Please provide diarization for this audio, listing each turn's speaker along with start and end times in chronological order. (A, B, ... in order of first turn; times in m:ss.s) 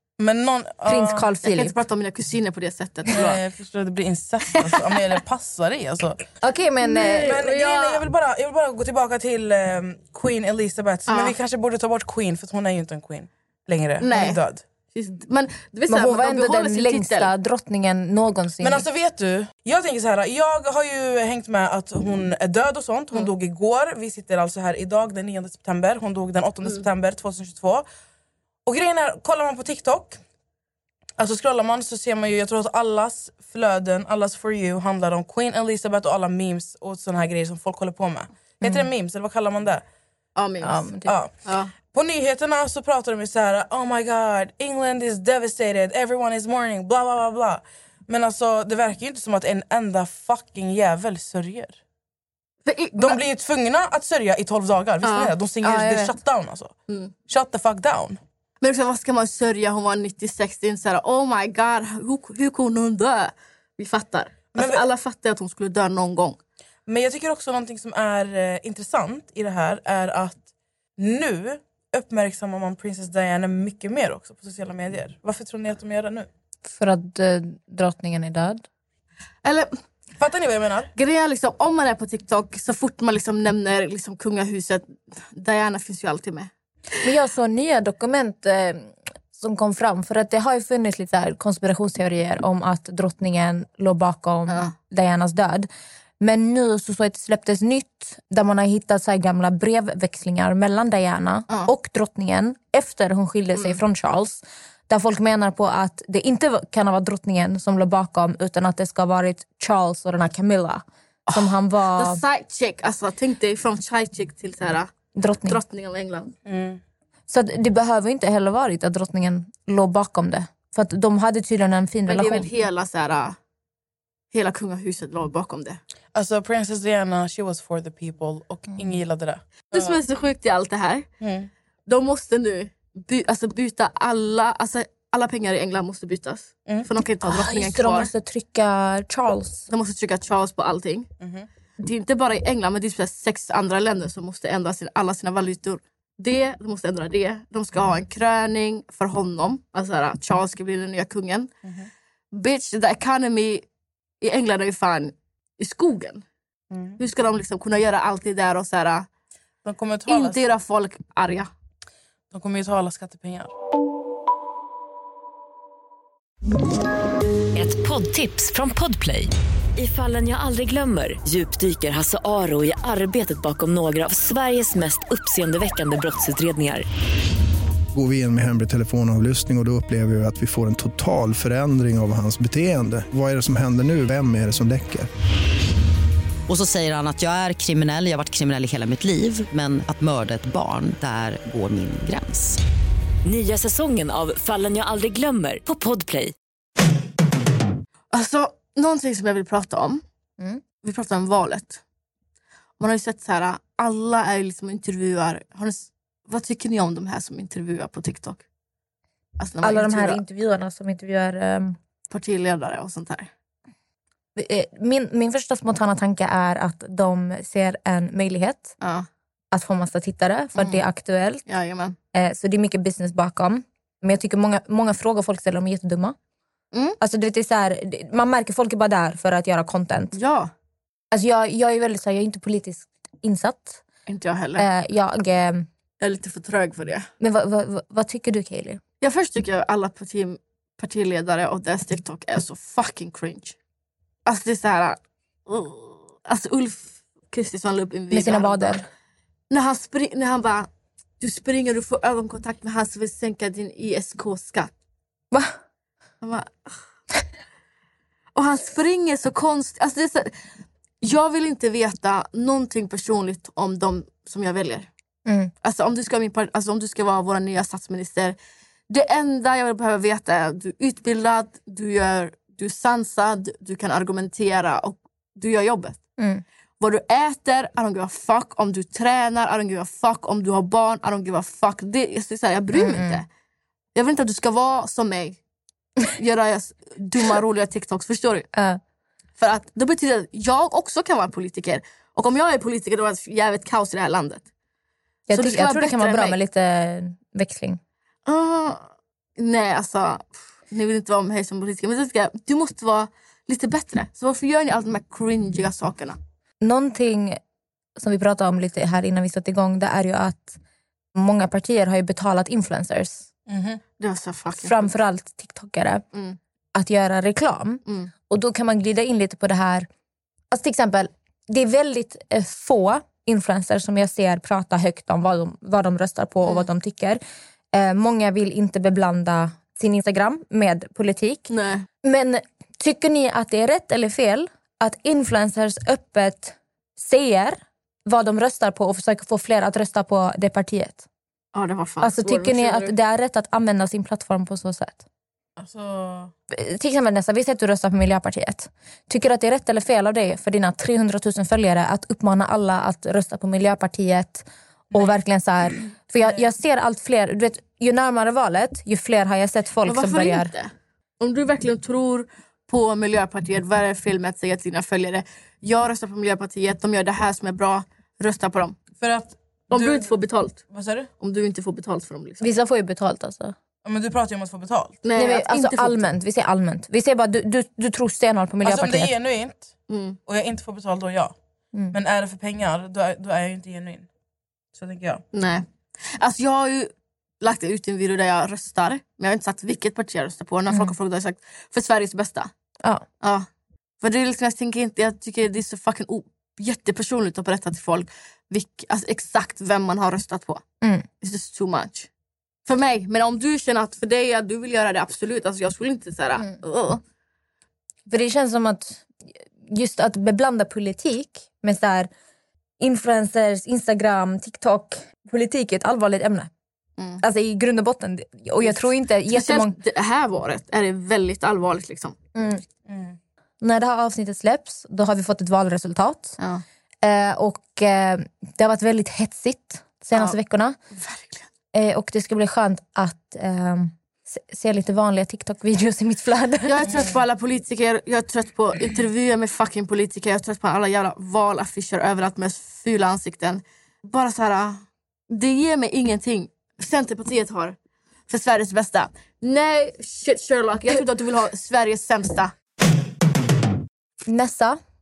0:00.2-0:01.3 A
0:00.8-0:01.7 B
0:01.4-0:03.4 C
0:03.1-0:06.2 A
0:04.5-0:05.0 C
0:06.4-0:07.4 B
0:06.8-0:08.0 C
0:07.2-0:14.6 A
0:11.1-0:11.4 C
0:14.0-0:14.4 C
0:14.9-0:17.3 C
0:15.9-0:18.8 B
0:18.6-0:27.8 A
0:28.6-0:30.2 A
0:31.2-0:39.8 A
0:40.4-0:40.9 C
0:40.6-0:41.1 B
0:41.0-0:41.3 A
0:41.4-0:41.7 C
0:41.9-0:51.8 A
0:52.6-0:53.2 C
0:53.0-0:56.7 A
0:55.0-0:55.3 C
0:55.6-0:56.1 B
0:57.3-0:58.2 A
0:58.6-1:06.4 C
1:04.5-1:04.8 A
1:06.8-1:10.4 A
1:11.0-1:16.3 A
1:16.6-1:18.6 B
1:19.4-1:19.7 C
1:20.2-1:20.9 A
1:20.9-1:26.5 C
1:27.0-1:35.7 B
1:34.5-1:34.7 C
1:36.2-1:52.2 B
1:51.3-1:54.9 C
1:55.1-1:55.6 B
1:55.4-1:56.3 C
1:56.4-1:56.8 A
1:57.3-2:02.5 B
2:02.1-2:03.4 C
2:04.3-2:05.8 C
2:06.1-2:10.0 A
2:09.7-2:11.1 C
2:11.2-2:11.5 A
2:11.9-2:18.1 C
2:17.2-2:19.7 B
2:19.7-2:21.1 C
2:21.2-2:21.5 A
2:21.8-2:31.5 C
2:32.3-2:33.6 C
2:34.2-2:36.2 C
2:36.7-2:37.0 A
2:37.0-2:39.1 C
2:39.6-2:40.4 A
2:40.1-2:41.5 C
2:42.3-2:43.5 A
2:47.5-2:56.8 D
2:57.9-3:05.1 E
3:06.5-3:12.6 F
3:13.2-3:16.3 D
3:18.1-3:20.0 C
3:20.8-3:21.8 C
3:22.8-3:28.4 C
3:29.4-3:30.2 C
3:29.6-3:31.8 B
3:32.1-3:33.3 C
3:34.4-3:38.7 B
3:38.8-3:39.1 C
3:39.5-3:41.4 B
3:40.6-3:40.8 C
3:41.4-3:42.0 C
3:42.1-3:46.2 B
3:46.7-3:47.0 C
3:47.0-3:50.2 B
3:50.1-3:50.5 C
3:51.1-3:53.8 B
3:54.1-3:54.6 C
3:54.6-3:55.7 B
3:56.0-3:57.1 C
3:57.2-3:58.8 B
3:59.0-4:03.6 C
4:04.2-4:08.8 C
4:08.1-4:08.8 B
4:09.5-4:10.7 C
4:11.2-4:14.7 C
4:15.3-4:15.6 B
4:16.2-4:16.7 C
4:18.3-4:20.3 C
4:21.0-4:24.9 C
4:25.2-4:25.5 B
4:25.6-4:28.4 C
4:28.9-4:36.0 C
4:36.2-4:36.4 B
4:36.8-4:43.2 C
4:42.7-4:43.2 B
4:43.9-4:45.4 C
4:46.0-4:48.5 C
4:48.5-4:48.8 B
4:49.4-4:54.4 C
4:55.3-4:57.8 B
4:55.3-4:56.4 C
4:58.2-5:06.2 C
5:06.6-5:07.4 B
5:08.0-5:10.6 B
5:11.1-5:13.3 B
5:13.5-5:13.8 A
5:14.0-5:14.9 C
5:14.6-5:16.0 B
5:16.1-5:16.4 C
5:16.7-5:19.9 B
5:17.8-5:18.1 C
5:20.5-5:27.2 B
5:27.7-5:31.5 B
5:31.5-5:31.9 C
5:32.0-5:41.0 B
5:41.5-5:42.9 C
5:42.0-5:45.0 B
5:45.6-5:46.3 A
5:46.5-6:00.5 B
5:59.8-6:08.8 C
6:09.0-6:10.1 A
6:09.7-6:10.6 C
6:10.7-6:11.1 A
6:11.2-6:12.4 C
6:12.4-6:13.5 B
6:13.8-6:15.0 A
6:15.0-6:16.0 C
6:15.2-6:19.1 B
6:18.6-6:19.7 A
6:19.9-6:20.2 C
6:20.3-6:21.3 A
6:21.9-6:24.1 A
6:24.7-6:25.2 A
6:25.3-6:32.5 C
6:34.0-6:40.6 C
6:40.8-6:41.1 B
6:41.2-6:42.1 C
6:42.6-6:47.0 C
6:48.1-6:49.1 B
6:49.6-6:52.1 B
6:52.8-6:56.5 B
6:57.2-6:59.8 B
6:58.6-7:02.2 C
7:02.3-7:02.6 B
7:02.9-7:03.2 A
7:03.6-7:06.4 B
7:07.0-7:10.8 B
7:10.9-7:11.5 C
7:11.7-7:16.8 B
7:16.6-7:27.8 C
7:28.3-7:32.5 C
7:34.2-7:34.8 B